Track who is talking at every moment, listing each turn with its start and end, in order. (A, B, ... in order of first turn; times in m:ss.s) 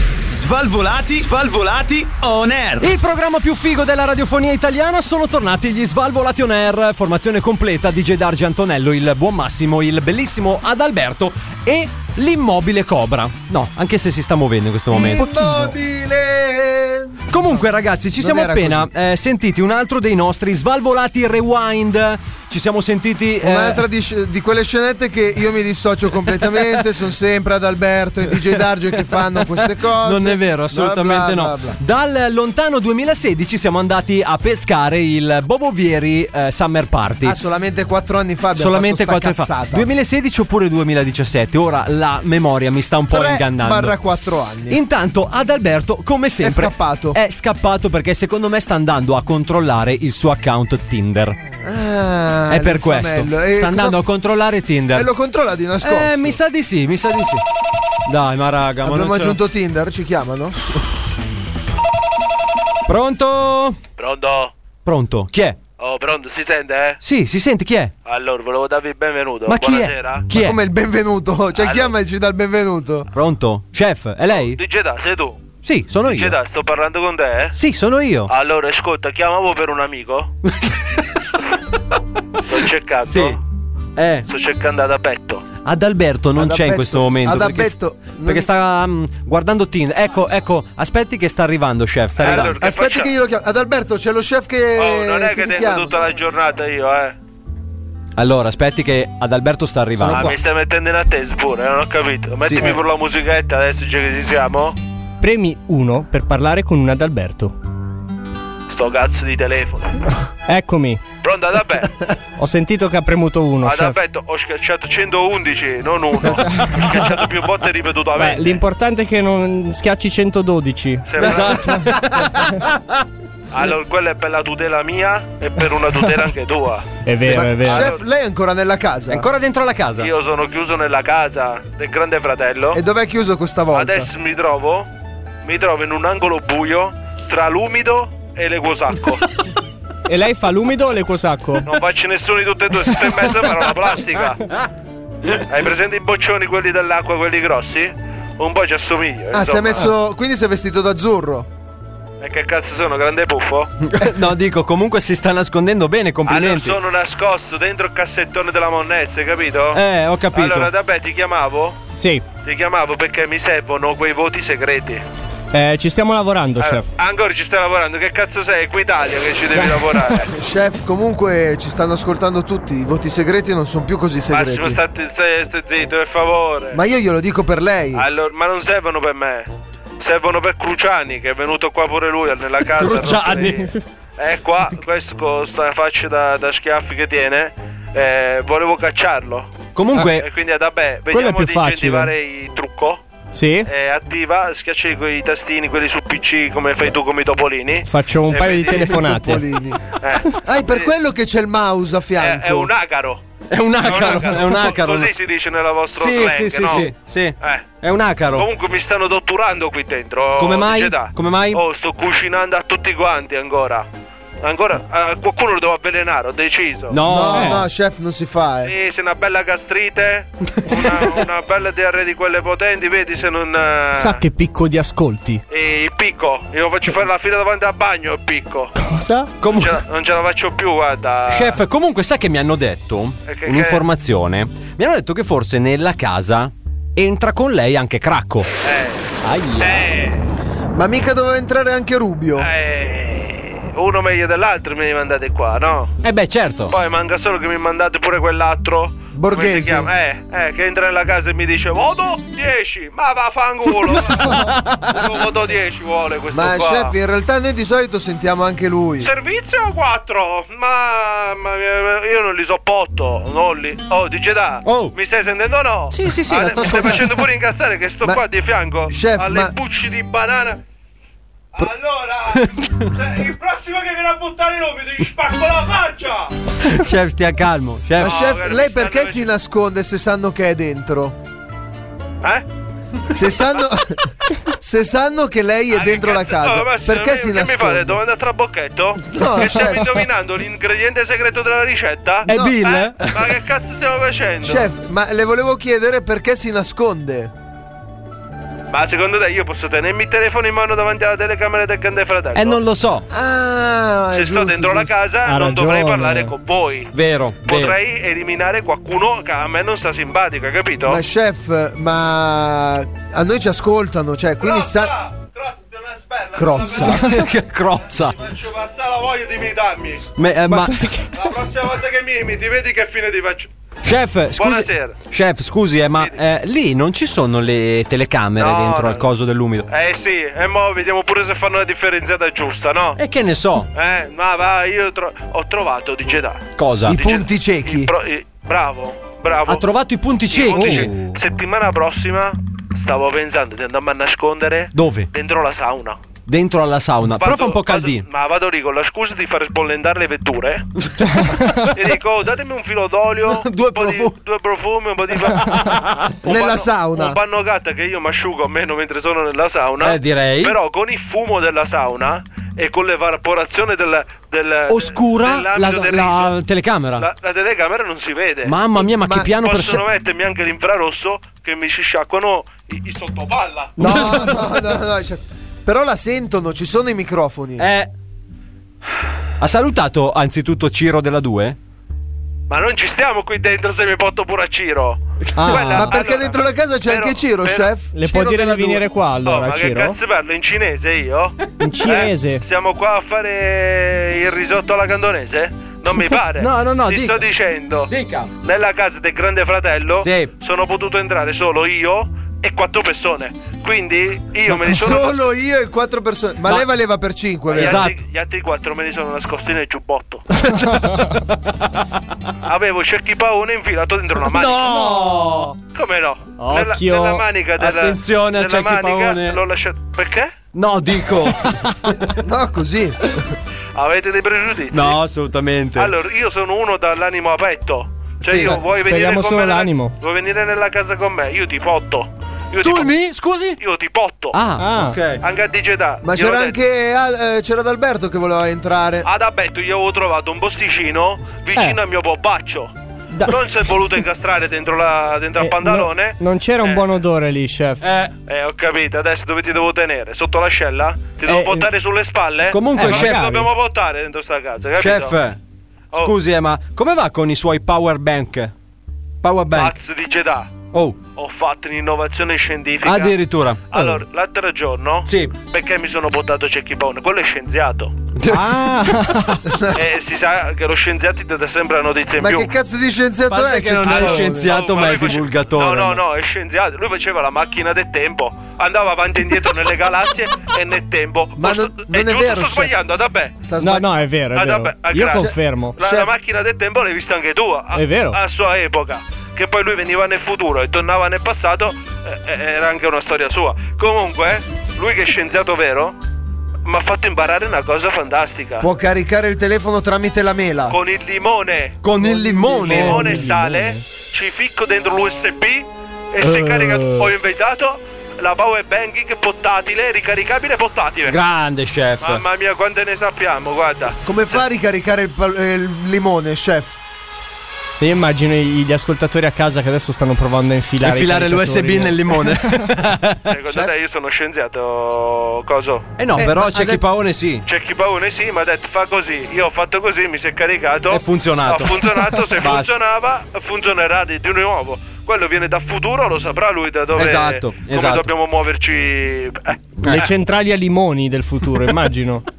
0:00.3-0:02.9 A
0:02.8-0:15.7 B
0:14.9-0:17.6 C
0:17.3-0:23.8 B
0:18.2-0:18.9 C
0:23.4-0:31.8 C
0:29.8-0:37.4 B
0:37.2-0:39.9 C
0:38.5-0:44.0 B
0:43.1-0:44.8 C
0:44.7-0:51.4 B
0:46.4-0:47.2 C
0:51.6-0:54.0 C
0:52.5-0:55.1 B
0:54.9-0:56.4 C
0:55.8-0:57.4 B
0:58.0-0:59.4 B
0:58.8-1:00.6 C
1:02.8-1:03.8 B
1:04.0-1:04.5 D
1:04.8-1:05.6 B
1:05.8-1:07.0 D
1:07.0-1:07.9 B
1:08.0-1:10.3 D
1:09.4-1:10.6 B
1:10.3-1:13.1 C
1:11.5-1:11.9 D
1:13.1-1:14.6 B
1:14.3-1:15.5 D
1:15.6-1:16.4 B
1:16.0-1:17.6 D
1:17.5-1:18.3 B
1:18.3-1:20.3 D
1:22.4-1:23.4 D
1:23.0-1:23.4 B
1:24.0-1:24.3 B
1:24.3-1:25.4 D
1:25.6-1:32.6 B
1:26.4-1:28.5 C
1:32.2-1:33.1 D
1:32.2-1:36.0 C
1:34.8-1:37.1 D
1:38.2-1:40.4 B
1:40.1-1:44.8 D
1:42.4-1:42.8 B
1:45.2-1:47.5 E
1:48.7-1:50.0 D
1:50.5-1:51.0 E
1:51.2-1:51.9 D
1:52.4-1:54.0 E
1:53.6-1:58.6 D
1:56.2-1:57.1 E
1:58.2-2:01.5 E
2:01.0-2:01.8 D
2:01.2-2:03.0 B
2:01.4-2:01.7 C
2:03.5-2:08.0 D
2:07.0-2:07.9 E
2:07.2-2:09.2 C
2:09.1-2:10.1 B
2:10.0-2:12.8 D
2:12.7-2:14.1 C
2:13.7-2:14.9 D
2:15.4-2:19.2 D
2:20.1-2:21.7 E
2:21.6-2:24.4 D
2:25.5-2:29.9 D
2:29.3-2:31.5 C
2:32.2-2:33.7 D
2:33.8-2:36.8 B
2:36.2-2:39.8 D
2:39.7-2:40.7 B
2:40.3-2:41.8 D
2:42.0-2:42.2 E
2:42.4-2:45.0 D
2:45.5-2:46.9 E
2:46.6-2:50.3 D
2:49.5-2:50.2 E
2:50.3-2:54.8 C
2:54.3-2:56.8 D
2:56.7-2:58.0 C
2:57.9-2:59.5 D
3:00.0-3:13.0 D
3:02.7-3:03.7 B
3:09.7-3:10.3 B
3:11.1-3:12.1 E
3:13.3-3:13.7 E
3:13.6-3:19.0 D
3:17.8-3:19.4 E
3:18.7-3:22.7 C
3:19.9-3:20.9 D
3:22.2-3:23.2 D
3:23.5-3:25.1 B
3:23.8-3:27.7 D
3:25.9-3:28.5 B
3:28.3-3:33.8 D
3:30.4-3:31.6 B
3:34.4-3:37.0 D
3:36.9-3:37.6 B
3:37.0-3:38.7 C
3:37.3-3:37.6 E
3:38.6-3:44.2 D
3:43.9-3:45.4 E
3:45.5-3:48.7 D
3:48.8-3:49.3 E
3:49.4-3:49.8 B
3:49.5-3:51.6 D
3:51.3-3:58.5 B
3:53.3-3:53.8 D
3:58.6-3:59.1 D
3:59.2-3:59.9 B
3:59.6-4:00.2 D
4:00.7-4:02.5 C
4:02.4-4:05.9 D
4:06.0-4:06.7 B
4:06.7-4:16.9 D
4:09.1-4:09.9 C
4:14.1-4:15.1 B
4:16.3-4:19.1 C
4:19.0-4:30.6 D
4:24.6-4:25.0 B
4:25.9-4:27.3 B
4:28.9-4:29.5 C
4:31.5-4:36.3 D
4:32.3-4:32.9 B
4:36.6-4:38.2 B
4:38.0-4:41.1 C
4:38.0-4:39.3 D
4:43.1-4:48.0 C
4:45.7-4:54.7 D
4:49.1-4:50.0 C
4:52.2-4:53.3 B
4:52.2-4:52.7 C
4:54.4-4:57.3 C
4:58.7-5:02.6 D
5:02.3-5:03.0 B
5:03.1-5:05.0 C
5:04.1-5:06.9 D
5:05.2-5:06.3 E
5:06.9-5:07.8 B
5:07.4-5:11.0 D
5:10.9-5:14.9 C
5:14.4-5:17.2 D
5:16.4-5:17.1 C
5:16.5-5:18.2 B
5:18.0-5:20.1 D
5:20.2-5:20.9 B
5:20.5-5:21.1 E
5:21.1-5:23.5 D
5:23.8-5:29.7 B
5:24.4-5:25.0 D
5:28.4-5:29.0 D
5:29.7-5:33.0 D
5:33.0-5:33.7 B
5:33.7-5:39.6 D
5:36.6-5:37.0 B
5:36.8-5:37.9 C
5:39.4-5:41.0 B
5:40.3-5:46.0 D
5:40.5-5:41.1 E
5:44.7-5:45.1 B
5:46.3-5:48.0 B
5:47.2-5:50.7 D
5:50.8-5:51.6 B
5:51.1-5:51.6 E
5:51.7-6:06.4 D
5:53.2-5:54.2 B
5:55.5-5:56.1 B
5:56.2-5:57.2 C
5:59.8-6:00.6 B
6:04.7-6:07.1 B
6:07.0-6:08.6 D
6:08.4-6:09.8 B
6:08.9-6:09.4 C
6:09.4-6:13.8 D
6:13.8-6:17.7 C
6:13.8-6:14.7 B
6:17.6-6:17.9 B
6:19.4-6:21.6 B
6:22.5-6:45.2 D
6:25.4-6:25.9 E
6:25.5-6:27.9 C
6:27.9-6:30.0 E
6:31.6-6:32.4 E
6:35.9-6:37.2 B
6:37.9-6:38.3 B
6:40.0-6:40.3 B
6:44.5-6:47.9 C
6:47.5-6:48.0 B
6:47.5-6:50.2 D
6:50.5-6:51.2 E
6:52.4-6:54.8 D
6:54.2-6:55.6 B
6:55.6-7:00.3 D
6:56.4-6:57.2 E
6:57.6-6:59.4 B
7:00.5-7:02.1 B
7:02.2-7:03.2 C
7:03.7-7:05.0 D
7:04.7-7:05.9 B
7:05.7-7:13.0 D
7:08.2-7:08.6 B
7:08.7-7:09.9 E
7:12.6-7:13.6 B
7:13.6-7:14.4 D
7:14.3-7:15.2 B
7:14.6-7:15.0 E
7:15.2-7:16.6 D
7:16.0-7:19.0 C
7:19.0-7:22.7 D
7:23.1-7:23.4 E
7:23.2-7:26.9 D
7:25.4-7:27.9 E
7:27.8-7:28.1 B
7:28.2-7:35.2 D
7:31.2-7:31.7 E
7:32.5-7:33.4 B
7:32.7-7:33.5 E
7:34.8-7:35.4 B
7:36.0-7:38.5 B
7:39.2-7:39.8 B
7:39.5-7:43.2 D
7:40.7-7:41.0 B
7:42.8-7:44.0 B
7:43.7-7:47.9 D
7:45.0-7:45.4 B
7:48.2-7:49.2 B
7:48.3-7:49.4 E
7:49.5-7:49.8 C
7:49.7-7:52.5 D
7:52.2-7:54.6 C
7:53.3-7:56.0 B
7:53.9-8:03.4 D
7:54.0-7:54.3 E
8:01.4-8:02.7 C
8:03.4-8:03.9 C
8:03.6-8:05.8 E
8:04.3-8:15.9 D
8:05.1-8:06.1 C
8:07.7-8:08.2 E
8:16.6-8:18.7 D
8:18.6-8:20.8 C
8:20.7-8:21.8 D
8:21.8-8:23.3 B
8:22.2-8:22.8 C
8:22.5-8:23.8 E
8:22.6-8:31.2 D
8:26.2-8:27.1 E
8:31.0-8:32.2 B
8:32.0-8:34.4 D
8:34.0-8:36.8 C
8:37.8-8:42.6 E
8:40.8-8:43.4 B
8:43.2-8:45.9 D
8:46.0-8:47.4 B
8:46.1-8:46.8 C
8:47.4-8:59.7 D
8:50.9-8:52.7 B
8:56.9-8:58.1 B
8:59.8-9:00.1 B
8:59.8-9:02.2 E